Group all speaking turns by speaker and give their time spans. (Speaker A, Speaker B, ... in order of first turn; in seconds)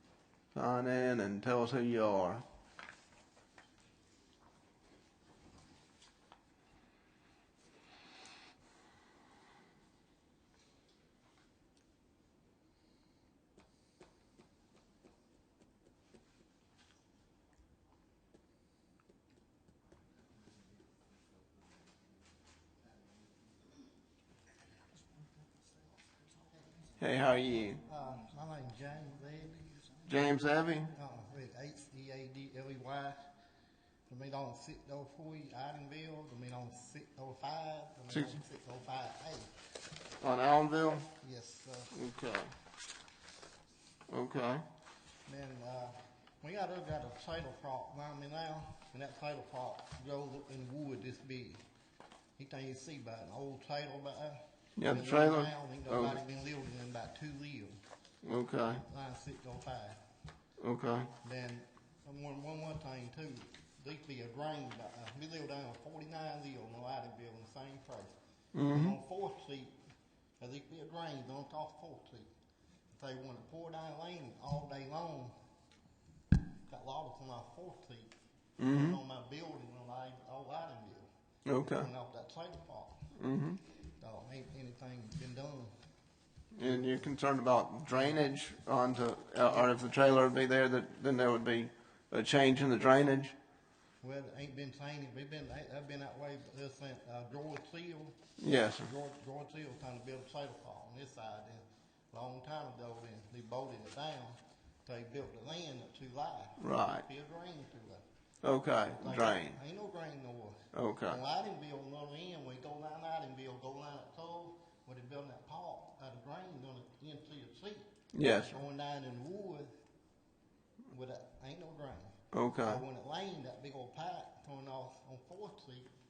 Speaker A: 0.6-2.4, 27.0-27.8, 30.1-30.9, 38.1-38.4, 40.2-41.1, 41.9-42.5, 44.1-44.6, 54.8-56.2, 58.2-58.8, 60.6-61.1, 68.5-69.0, 78.6-79.0, 81.5-81.9, 83.2-83.6, 86.5-93.3, 98.4-98.9, 106.6-107.0, 108.4-109.6, 110.7-111.2, 118.1-118.6, 122.3-122.8
Speaker B: 27.9-30.0, 30.9-33.2, 34.1-39.5, 41.2-42.0, 45.3-51.6, 52.4-57.8, 58.7-60.0, 61.2-68.1, 68.7-69.8, 70.4-72.3, 72.9-75.3, 76.7-83.0, 84.0-85.7, 86.6-87.1, 94.0-108.0, 109.0-119.7, 120.9-125.9